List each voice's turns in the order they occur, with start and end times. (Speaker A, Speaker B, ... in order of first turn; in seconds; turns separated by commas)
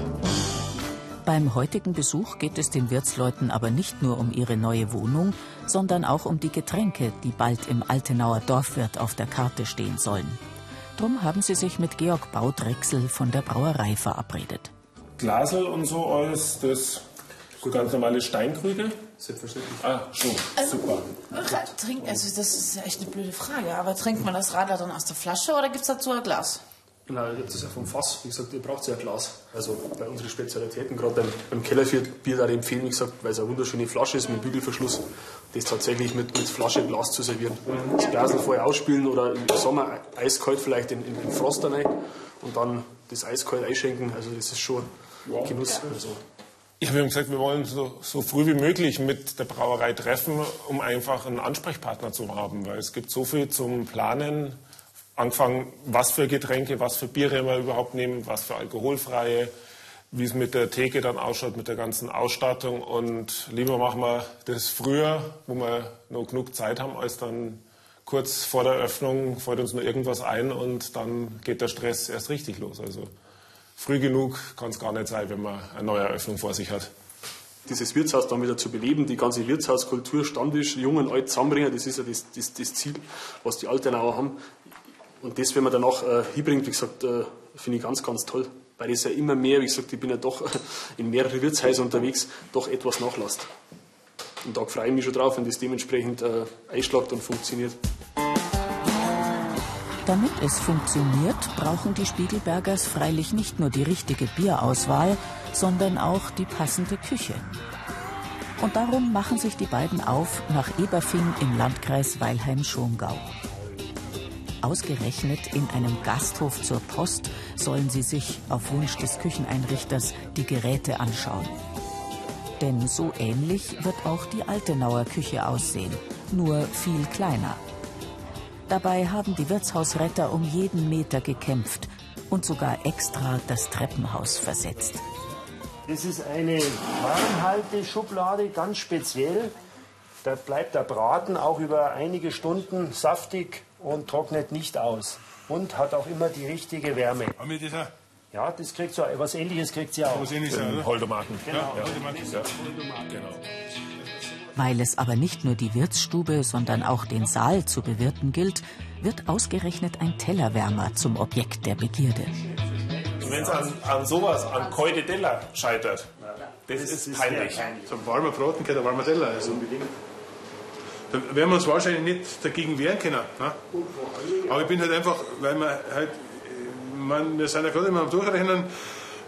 Speaker A: 1.2-10.4, Speaker A: 11.0-14.7, Speaker B: 15.2-17.0, Speaker B: 17.6-19.0, Speaker C: 19.2-19.8, Speaker B: 19.8-21.1, Speaker D: 20.6-26.6, Speaker C: 27.1-46.2, Speaker B: 45.3-45.5, Speaker B: 46.8-54.6, Speaker B: 55.2-59.5, Speaker B: 60.1-73.1, Speaker B: 73.8-76.9, Speaker C: 77.7-84.4, Speaker C: 85.2-93.5, Speaker C: 94.4-97.8, Speaker A: 100.0-107.5, Speaker A: 108.6-113.3, Speaker A: 114.6-121.6, Speaker A: 122.6-127.6, Speaker A: 128.7-135.0, Speaker E: 135.9-139.5, Speaker E: 140.2-147.3, Speaker F: 147.4-147.9, Speaker E: 148.3-150.2, Speaker F: 150.1-150.9, Speaker B: 150.4-152.6, Speaker F: 151.5-152.4, Speaker E: 151.7-152.3, Speaker B: 153.1-153.4, Speaker A: 154.6-162.3, Speaker B: 163.2-166.1, Speaker B: 166.7-167.7, Speaker E: 166.7-167.8, Speaker F: 167.8-169.7, Speaker F: 171.1-173.6, Speaker E: 173.8-174.7, Speaker F: 174.5-178.7